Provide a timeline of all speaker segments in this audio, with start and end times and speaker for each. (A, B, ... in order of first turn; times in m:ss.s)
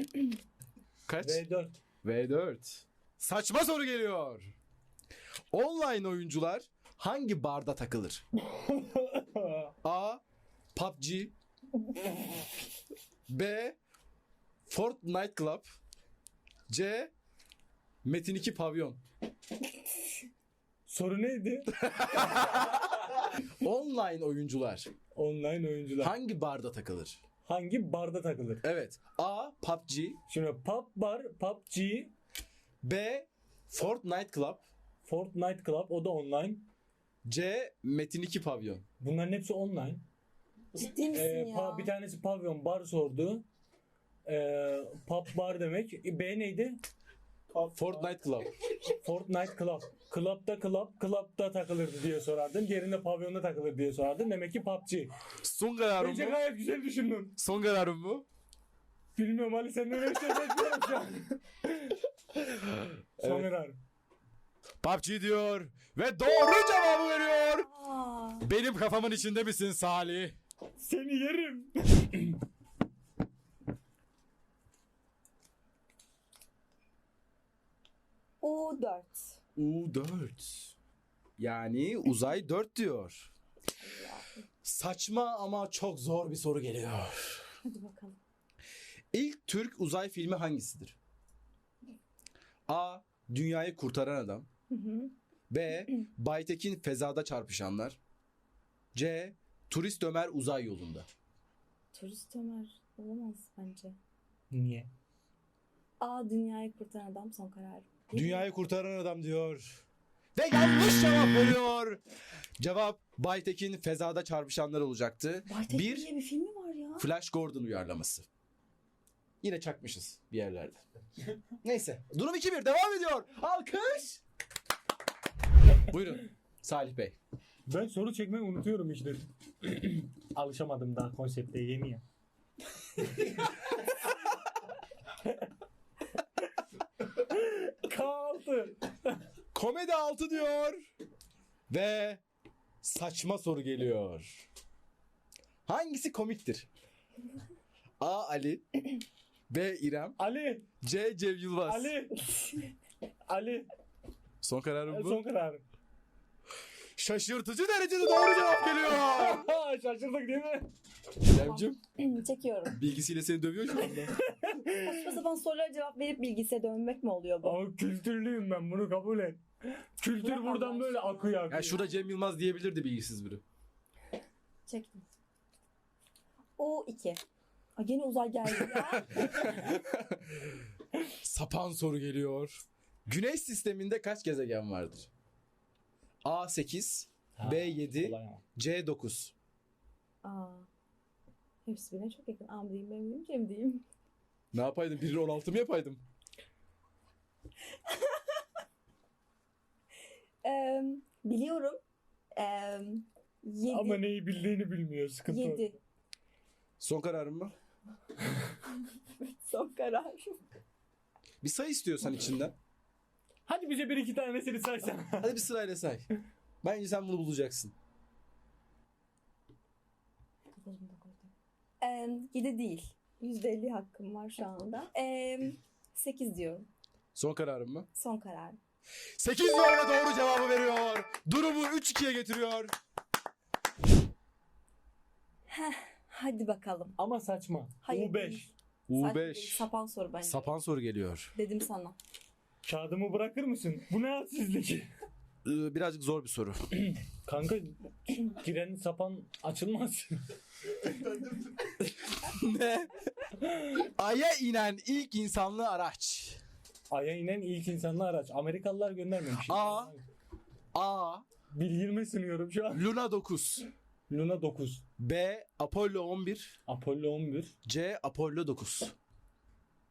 0:01.0-0:01.4 A
0:01.2-0:01.8 B
0:02.0-0:04.5 A
0:05.5-0:08.2 A
0:08.6-0:09.6 B
0:09.8-0:10.2 A
0:10.7-0:11.3 A
0:13.3-0:13.8 A
0:14.7-0:15.7 A
0:16.7-0:17.1 A
0:18.0-0:19.0 A
0:20.9-0:21.7 B
0:21.8-0:24.9 A
0:25.1-0:26.1 B
0:26.0-0:27.2 A
0:27.4-0:28.6 B
0:28.6-0:30.2 A
0:30.3-0:32.1 B
0:32.8-0:34.6 A
0:35.0-0:36.6 B
0:37.2-0:38.8 A
0:39.0-0:40.0 B
0:40.7-0:41.9 C
0:41.1-0:43.4 B
0:44.2-0:46.8 B
0:47.7-0:48.5 A
0:49.0-0:55.1 B
0:55.4-0:56.4 A
0:56.0-0:57.3 B
0:57.4-0:58.2 A
0:59.2-1:02.0 B
1:03.2-1:03.4 A
1:03.2-1:03.8 B
1:04.8-1:07.7 A
1:07.6-1:08.4 C
1:08.4-1:10.4 A
1:10.8-1:12.4 B
1:18.4-1:19.4 C
1:19.6-1:20.7 A
1:21.4-1:23.3 A
1:23.8-1:24.4 C
1:24.6-1:27.5 A
1:27.6-1:28.2 C
1:29.1-1:31.0 A
1:32.7-1:34.5 A
1:34.7-1:35.1 C
1:35.5-1:38.0 A
1:38.9-1:41.1 A
1:41.9-1:44.0 C
1:44.5-1:44.9 B
1:46.0-1:48.5 C
1:48.1-1:49.8 A
1:50.4-1:52.0 A
1:52.6-1:56.1 A
1:55.4-1:57.0 C
1:57.0-1:58.3 A
1:59.4-2:00.8 A
2:01.6-2:04.2 A
2:05.9-2:07.2 A
2:07.7-2:12.0 B
2:17.3-2:19.2 B
2:19.5-2:20.8 A
2:21.7-2:22.2 A
2:22.8-2:24.4 A
2:25.6-2:26.7 A
2:28.0-2:28.8 A
2:29.5-2:30.2 A
2:30.2-2:30.6 B
2:30.8-2:31.9 A
2:31.6-2:32.2 B
2:33.3-2:33.7 B
2:34.4-2:35.2 A
2:34.9-2:35.6 B
2:37.0-2:39.4 A
2:38.9-2:40.7 B
2:41.2-2:41.8 A
2:41.3-2:42.8 C
2:42.7-2:44.2 A
2:44.2-2:44.9 B
2:44.7-2:47.6 C
2:47.4-2:49.4 B
2:50.0-2:51.8 B
2:50.2-2:52.0 C
2:51.5-2:53.4 A
2:54.7-2:55.0 C
2:56.6-2:57.2 C
2:57.8-2:59.7 C
2:58.7-3:00.5 A
3:01.0-3:05.1 A
3:06.2-3:09.3 A
3:07.4-3:08.4 B
3:10.2-3:10.7 C
3:11.6-3:13.8 C
3:14.5-3:16.0 A
3:17.8-3:18.4 C
3:20.4-3:21.8 C
3:22.4-3:24.0 C
3:23.7-3:25.7 B
3:25.3-3:25.8 C
3:26.8-3:27.5 A
3:28.6-3:30.5 C
3:31.4-3:32.5 A
3:33.5-3:35.3 B
3:35.1-3:36.1 A
3:36.6-3:37.7 A
3:40.6-3:46.7 C
3:47.1-3:47.9 A
3:47.9-3:48.6 C
3:49.2-3:52.7 A
3:55.5-3:57.0 C
3:57.0-3:58.4 B
3:57.8-4:00.5 C
3:58.9-3:59.7 A
4:00.2-4:01.3 A
4:01.3-4:02.0 C
4:02.6-4:04.9 B
4:05.4-4:06.8 A
4:07.2-4:10.2 B
4:11.8-4:12.9 A
4:13.5-4:16.4 A
4:16.9-4:20.0 B
4:19.4-4:19.9 A
4:20.7-4:21.2 A
4:21.5-4:22.9 B
4:22.7-4:23.6 A
4:24.1-4:24.8 B
4:25.0-4:26.6 A
4:26.7-4:27.5 B
4:27.6-4:29.0 A